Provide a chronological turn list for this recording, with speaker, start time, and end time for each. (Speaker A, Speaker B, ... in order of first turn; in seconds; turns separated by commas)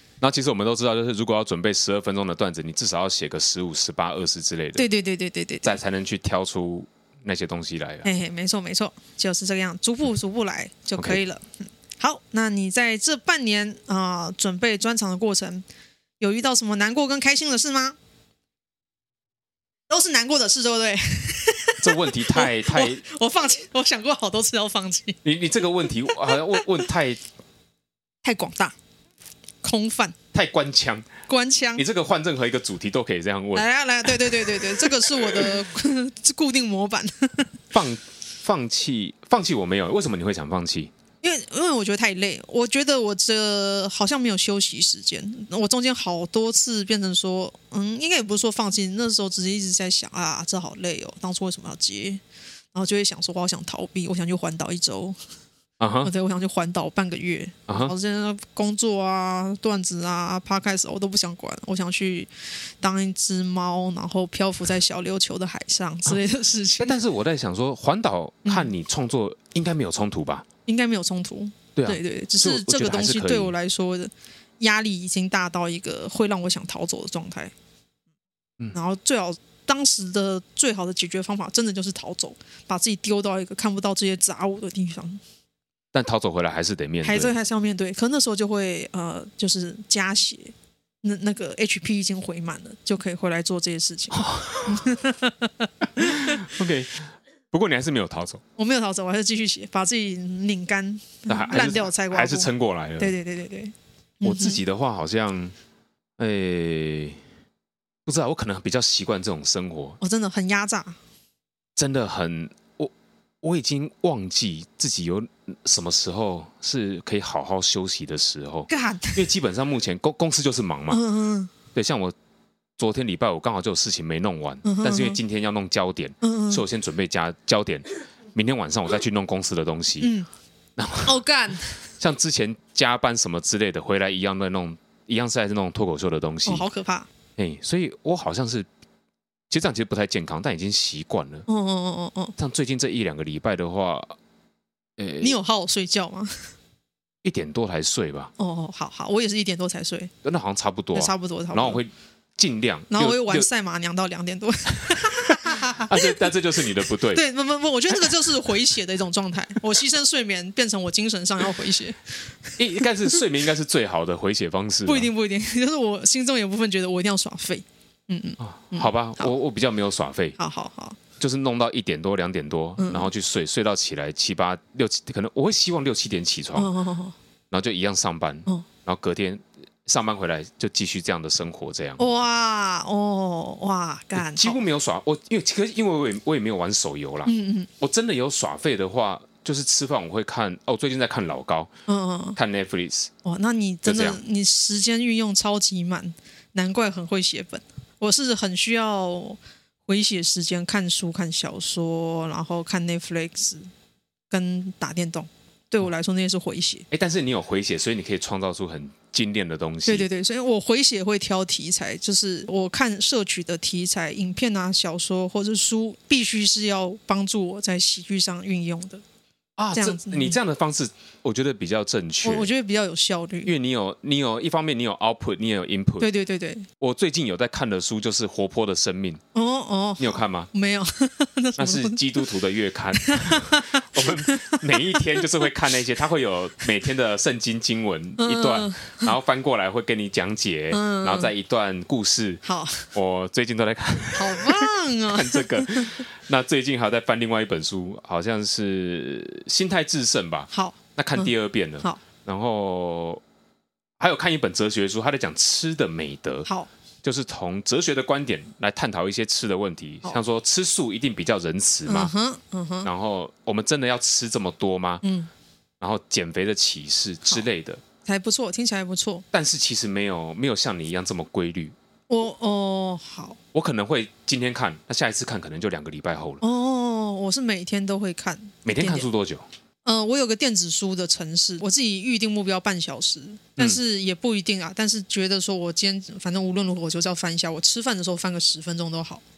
Speaker A: 0.2-4.9, Speaker B: 4.8-5.8, Speaker A: 5.6-8.1, Speaker B: 8.0-15.7, Speaker B: 16.2-18.0, Speaker B: 19.9-25.2, Speaker A: 21.8-23.0, Speaker A: 25.2-27.2, Speaker B: 26.3-26.6, Speaker B: 28.2-28.7, Speaker B: 29.6-30.1, Speaker A: 30.3-31.1, Speaker B: 31.3-31.8, Speaker A: 31.8-34.5, Speaker B: 33.5-37.5, Speaker A: 37.7-40.9, Speaker B: 41.2-52.2, Speaker B: 52.7-55.2, Speaker A: 55.8-56.1, Speaker B: 56.0-62.3, Speaker A: 57.7-57.9, Speaker B: 62.8-67.0, Speaker A: 66.8-70.5, Speaker B: 68.5-68.7, Speaker B: 70.7-77.5, Speaker A: 71.8-73.5, Speaker B: 78.7-85.2, Speaker A: 85.9-87.3, Speaker B: 87.0-96.4, Speaker A: 94.1-94.9, Speaker A: 96.0-97.0, Speaker A: 97.5-98.4, Speaker B: 98.6-104.6, Speaker A: 101.3-103.1, Speaker A: 104.2-105.5, Speaker A: 106.2-107.2, Speaker A: 108.1-110.0, Speaker B: 110.0-111.0, Speaker A: 111.8-121.0, Speaker B: 118.7-119.3, Speaker B: 120.9-121.5, Speaker A: 121.7-122.2, Speaker A: 122.8-130.1, Speaker B: 124.6-125.2, Speaker B: 126.2-126.6, Speaker B: 130.0-130.3, Speaker A: 130.8-131.2, Speaker B: 131.0-131.8, Speaker A: 132.0-136.7, Speaker B: 136.5-137.1, Speaker A: 137.4-138.7, Speaker A: 139.5-141.5, Speaker B: 141.5-142.3, Speaker A: 142.4-144.2, Speaker A: 145.0-145.4, Speaker B: 145.2-146.5, Speaker A: 147.2-148.3, Speaker B: 148.4-150.1, Speaker A: 150.2-153.5, Speaker B: 150.9-151.8, Speaker B: 152.9-156.2, Speaker A: 154.9-157.2, Speaker B: 157.1-162.6, Speaker A: 162.6-165.1, Speaker B: 164.9-169.3, Speaker A: 168.4-170.4, Speaker B: 170.4-171.0, Speaker A: 171.2-176.7, Speaker B: 172.8-173.1, Speaker B: 176.6-177.2, Speaker A: 177.5-182.0, Speaker B: 182.0-184.6, Speaker A: 184.2-191.7, Speaker B: 187.2-187.7, Speaker B: 191.9-192.4, Speaker A: 192.4-193.1, Speaker B: 193.2-203.7, Speaker A: 193.8-194.2, Speaker B: 204.3-206.9, Speaker A: 206.9-210.1, Speaker B: 209.9-219.0, Speaker A: 219.6-222.5, Speaker B: 219.7-220.4, Speaker B: 222.2-223.5, Speaker A: 223.4-226.1, Speaker B: 226.0-226.7, Speaker A: 226.8-229.2, Speaker B: 229.3-232.3, Speaker A: 230.0-230.5, Speaker A: 231.6-242.4, Speaker B: 232.9-235.3, Speaker B: 238.2-239.1, Speaker B: 240.7-241.3, Speaker B: 242.4-242.9, Speaker A: 242.9-253.2, Speaker B: 244.2-246.0, Speaker B: 250.5-252.0, Speaker A: 254.0-256.5, Speaker A: 257.0-262.1, Speaker B: 261.9-262.9, Speaker A: 262.8-265.0, Speaker B: 265.0-265.3, Speaker A: 265.8-267.8, Speaker B: 268.1-269.2, Speaker A: 269.3-271.8, Speaker B: 272.1-273.4, Speaker A: 273.5-276.4, Speaker B: 276.4-279.1, Speaker A: 278.6-279.5, Speaker B: 279.9-289.2